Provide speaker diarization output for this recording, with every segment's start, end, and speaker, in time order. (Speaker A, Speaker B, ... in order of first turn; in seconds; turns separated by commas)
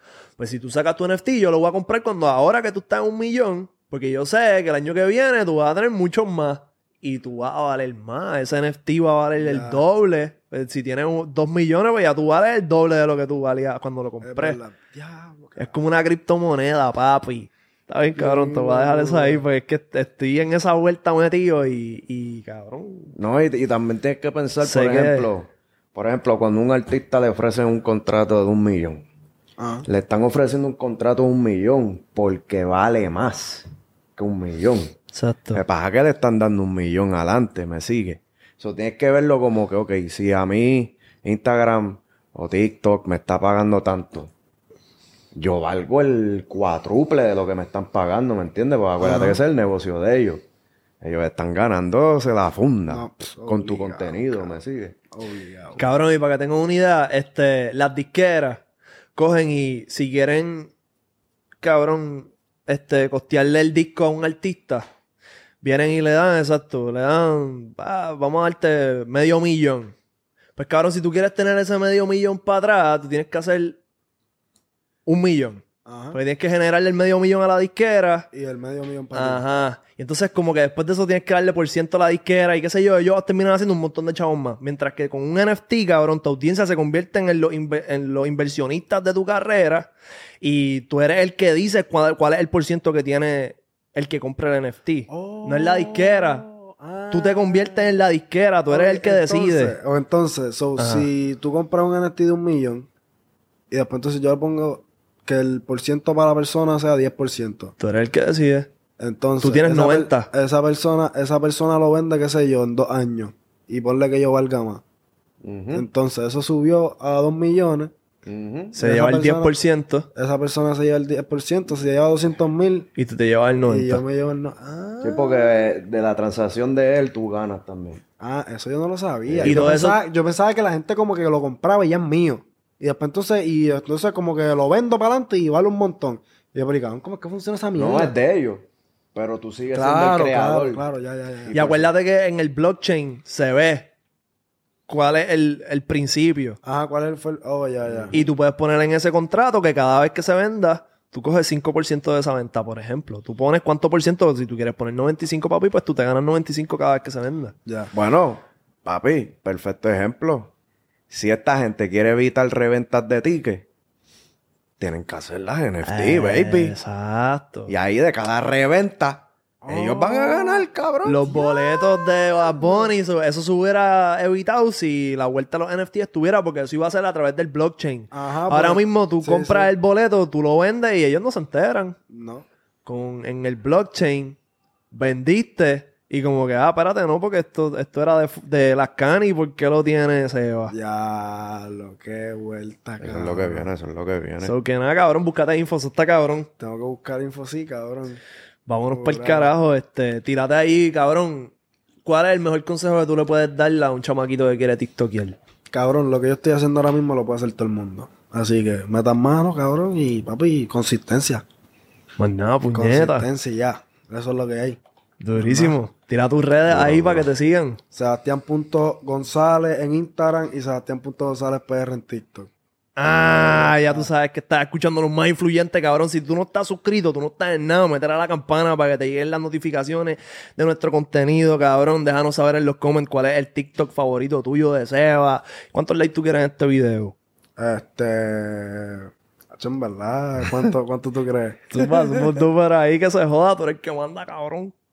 Speaker A: 0.4-14.6, Speaker B: 9.4-9.8, Speaker B: 14.2-15.7, Speaker A: 15.6-23.1, Speaker B: 18.1-19.4, Speaker C: 23.1-29.0, Speaker A: 24.6-25.3, Speaker B: 29.6-29.9, Speaker C: 29.9-34.9, Speaker A: 35.1-35.6, Speaker C: 35.5-44.3, Speaker C: 45.3-50.4, Speaker B: 49.0-49.4, Speaker C: 51.0-55.0, Speaker B: 52.9-54.6, Speaker B: 55.1-55.8, Speaker A: 55.8-58.6, Speaker A: 59.1-60.7, Speaker A: 61.6-64.8, Speaker A: 65.6-69.9, Speaker A: 70.5-73.8, Speaker A: 75.0-78.3, Speaker B: 75.8-76.2, Speaker B: 78.3-79.4, Speaker A: 79.1-96.5, Speaker B: 95.1-98.0, Speaker A: 97.1-99.8, Speaker B: 98.7-102.9, Speaker A: 100.8-101.1, Speaker B: 103.7-107.7, Speaker A: 107.8-108.7, Speaker B: 109.0-114.8, Speaker A: 109.4-110.3, Speaker C: 115.4-115.9, Speaker B: 115.7-117.9, Speaker C: 118.2-118.8, Speaker A: 118.7-120.1, Speaker B: 118.8-119.5, Speaker B: 120.1-122.9, Speaker A: 123.0-124.0, Speaker B: 123.7-125.6, Speaker C: 125.0-128.0, Speaker B: 128.2-138.2, Speaker C: 129.3-129.7, Speaker A: 129.4-130.0, Speaker C: 137.7-140.8, Speaker B: 139.7-141.8, Speaker C: 141.4-141.9, Speaker A: 141.5-143.9, Speaker A: 144.9-146.6, Speaker B: 146.6-148.2, Speaker C: 147.8-148.2, Speaker A: 148.1-157.5, Speaker B: 157.7-157.9, Speaker C: 157.9-160.5, Speaker C: 161.1-163.6, Speaker C: 164.8-166.7, Speaker A: 165.8-167.7, Speaker C: 167.7-171.3, Speaker B: 169.6-170.7, Speaker A: 171.0-181.9, Speaker B: 171.3-172.9, Speaker B: 178.1-179.7, Speaker B: 182.1-182.5, Speaker A: 182.8-184.4, Speaker A: 184.9-190.7, Speaker B: 190.7-193.7, Speaker C: 193.0-194.5, Speaker A: 194.4-196.5, Speaker B: 196.6-198.2, Speaker A: 198.7-201.5, Speaker B: 198.9-199.5, Speaker A: 202.0-205.4, Speaker B: 205.7-211.4, Speaker A: 212.2-213.3, Speaker B: 212.7-214.8, Speaker A: 215.2-217.8, Speaker B: 215.4-215.8, Speaker C: 216.7-217.3, Speaker B: 217.9-222.5, Speaker A: 223.0-237.1, Speaker B: 223.5-224.1, Speaker B: 237.6-241.6, Speaker A: 241.7-244.7